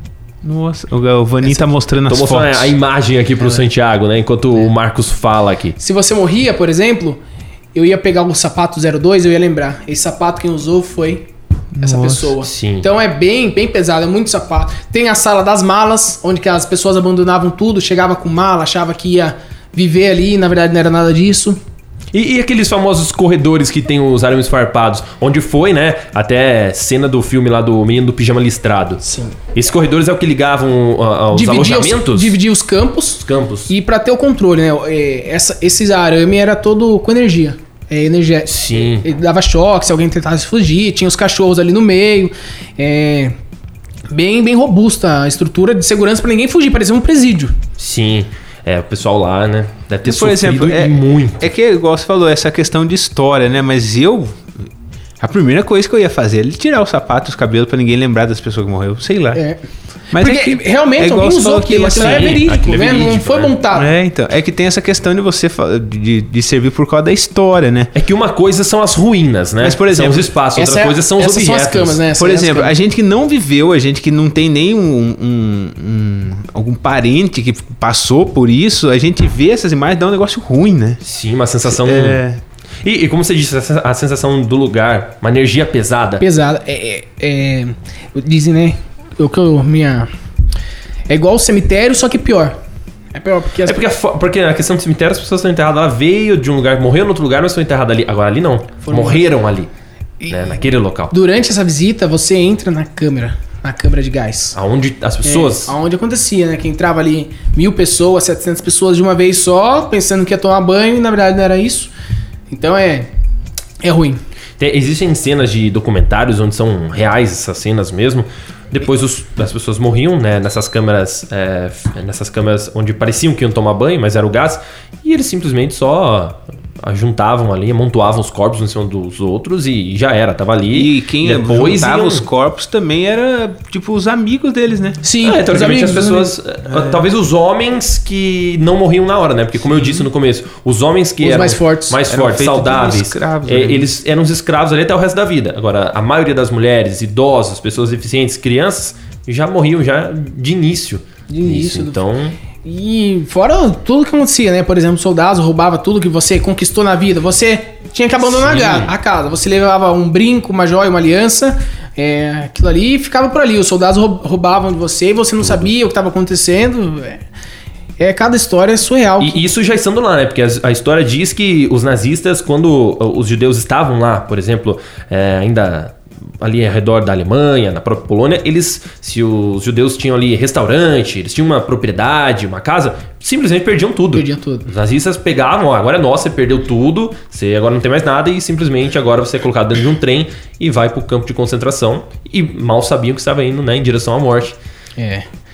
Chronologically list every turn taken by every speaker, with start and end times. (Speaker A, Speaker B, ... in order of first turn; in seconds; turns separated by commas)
Speaker A: 0.4-2.7, Speaker B: 2.1-5.8, Speaker C: 5.8-7.2, Speaker C: 7.7-11.3, Speaker A: 11.7-12.3, Speaker C: 11.8-21.6, Speaker B: 12.4-12.9, Speaker B: 22.1-29.0, Speaker C: 29.0-29.4, Speaker B: 29.5-32.4, Speaker C: 31.3-43.3, Speaker B: 33.2-33.7, Speaker B: 38.5-39.0, Speaker C: 44.1-47.5, Speaker B: 47.8-51.5, Speaker A: 50.0-54.5, Speaker A: 55.2-59.4, Speaker C: 59.3-59.6, Speaker A: 60.1-62.5, Speaker C: 60.1-63.9, Speaker B: 62.0-63.5, Speaker A: 63.7-67.9, Speaker B: 67.9-72.0, Speaker A: 69.6-70.3, Speaker C: 70.5-72.7, Speaker A: 72.2-81.0, Speaker B: 81.0-82.2, Speaker A: 81.7-82.4, Speaker B: 82.8-86.2, Speaker C: 86.2-90.1, Speaker C: 91.1-92.5, Speaker C: 93.1-93.8, Speaker B: 93.7-99.7, Speaker C: 98.8-99.2, Speaker C: 100.2-100.5, Speaker B: 100.3-101.1, Speaker C: 101.1-104.6, Speaker B: 104.5-105.7, Speaker C: 105.2-111.9, Speaker C: 112.5-113.1, Speaker C: 113.8-114.2, Speaker B: 114.6-132.2, Speaker A: 130.7-135.0, Speaker C: 135.0-136.3, Speaker B: 135.2-152.4, Speaker A: 136.7-137.0, Speaker A: 139.7-140.1, Speaker C: 141.2-142.0, Speaker A: 142.1-143.9, Speaker C: 151.3-152.0, Speaker C: 152.6-167.2, Speaker B: 158.3-158.9, Speaker B: 165.4-165.7, Speaker C: 168.0-169.4, Speaker B: 169.2-194.6, Speaker C: 184.1-184.7, Speaker C: 195.0-195.2